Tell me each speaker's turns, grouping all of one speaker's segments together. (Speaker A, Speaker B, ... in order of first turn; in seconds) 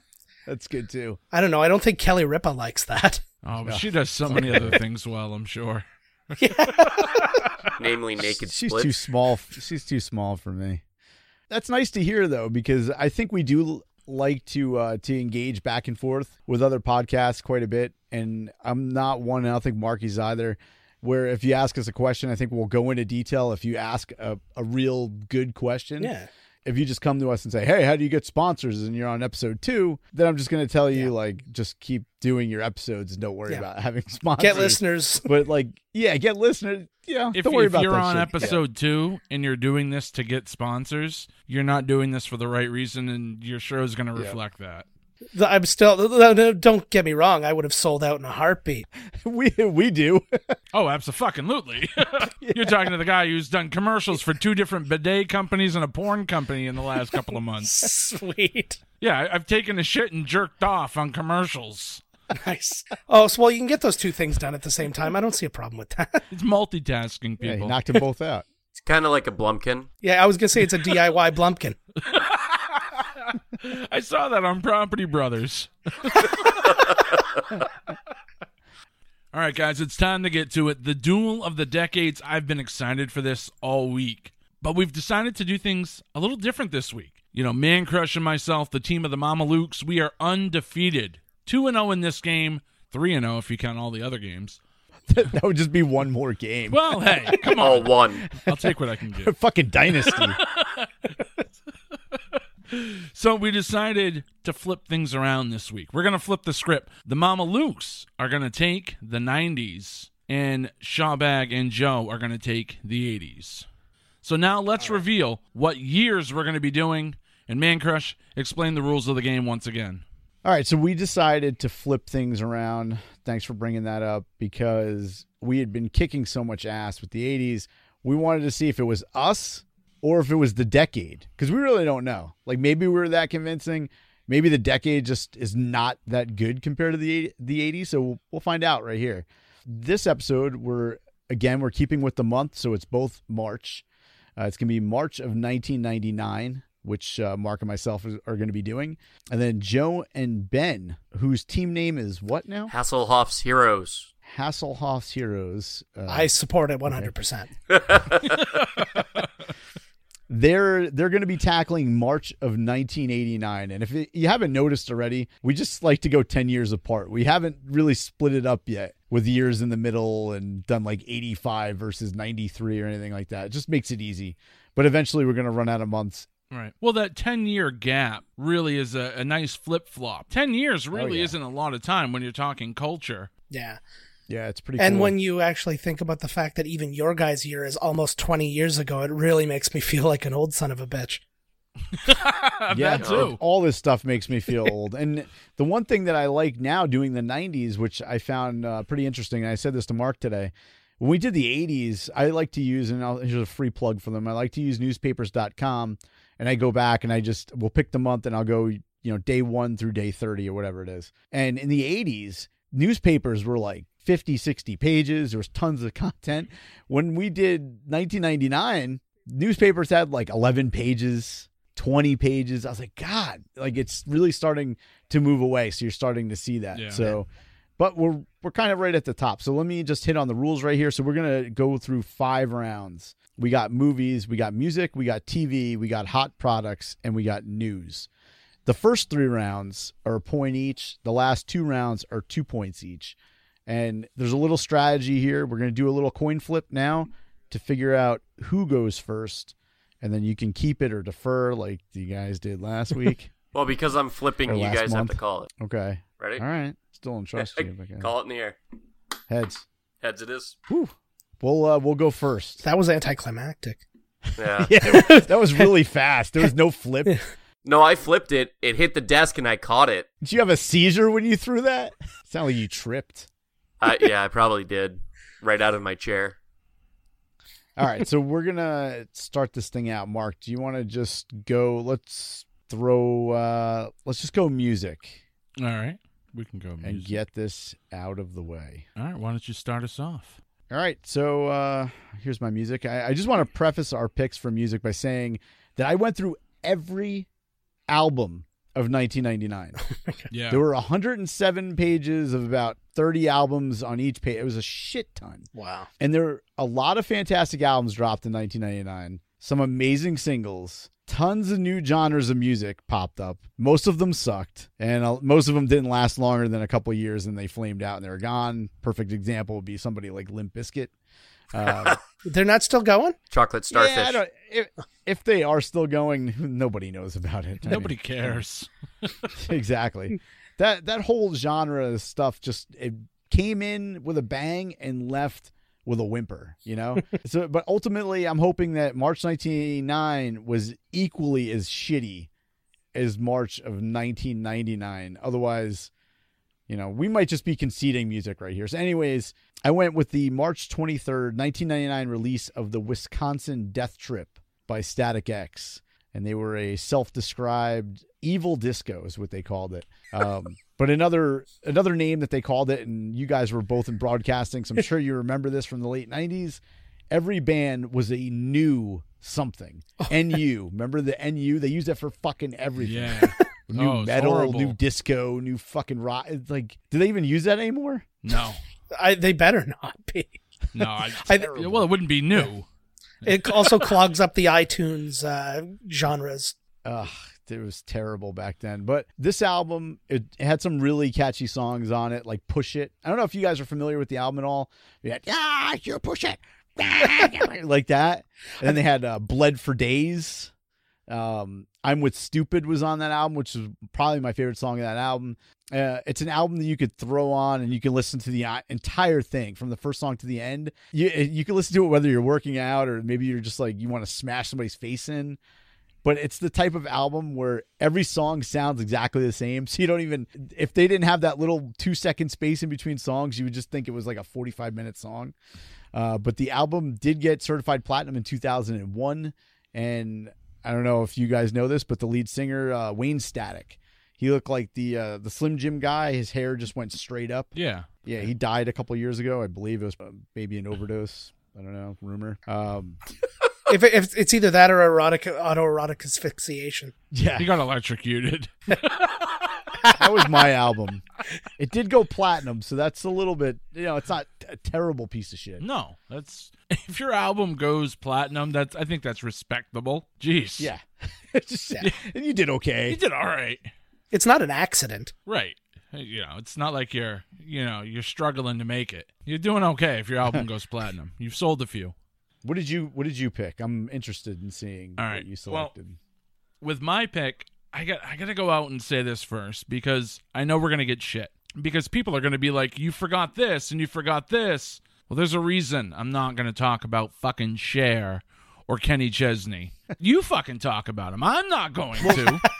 Speaker A: 0.5-1.2, 3.6-4.8, 8.4-10.8, 11.5-38.6, 49.0-50.5, 52.4-52.9, 67.4-68.4, 95.1-97.5, 98.3-100.4, 120.4-143.8, 144.4-152.7, 154.2-156.3, 160.3-176.3, 180.9-181.3, 184.3-185.1, 192.7-227.3, 227.8-238.1, 238.7-243.2, 243.7-253.3, 254.4-258.1, 259.3-259.6, 260.7-262.6, 264.5-267.2, 270.2-273.3, 277.8-285.2, 286.8-288.8, 290.7-297.3, 297.9-299.8, 300.5-305.5, 306.0-320.9, 321.5-322.0, 323.7-328.4, 329.4-342.3, 342.9-345.9, 346.7-378.1, 381.2-381.9, 386.8-400.5, 401.1-415.4, 416.0-425.3, 425.9-443.0, 447.1-447.5, 449.8-451.0, 451.6-455.6, 460.6-463.0, 472.4-476.0, 492.0-492.4
Speaker B: 1.3-3.2, 6.4-7.4, 26.0-26.3, 34.4-35.3, 45.3-48.9, 57.6-58.8, 62.3-66.2, 70.0-71.8, 156.1-157.5, 183.5-183.8, 184.8-191.2, 262.6-263.8, 264.8-265.7, 305.5-305.9, 322.2-323.1, 378.9-380.4, 383.2-386.5, 443.7-446.9, 464.1-465.1
Speaker C: 3.4-7.5, 37.3-44.8, 50.7-57.9, 59.0-62.0, 66.3-67.8, 72.0-77.0, 79.3-94.6, 96.7-99.3, 100.0-101.1, 102.7-113.6, 114.2-120.0, 176.5-183.3, 191.9-193.4, 226.7-227.2, 285.6-287.2, 289.0-290.4, 300.3-300.6, 327.6-329.3, 372.8-374.8, 378.2-378.6, 380.7-382.7, 383.2-383.9, 437.5-437.9, 447.4-449.3, 455.6-460.7, 462.9-463.7, 465.2-471.9, 475.0-475.7, 476.6-492.4
Speaker D: 7.8-8.9, 68.7-69.9, 97.6-98.2, 152.7-154.1, 157.7-158.4, 193.0-193.3, 253.5-255.5, 257.4-258.6, 260.0-260.6, 264.4-264.7, 267.6-270.1, 273.8-276.4, 321.7-322.0, 323.3-324.2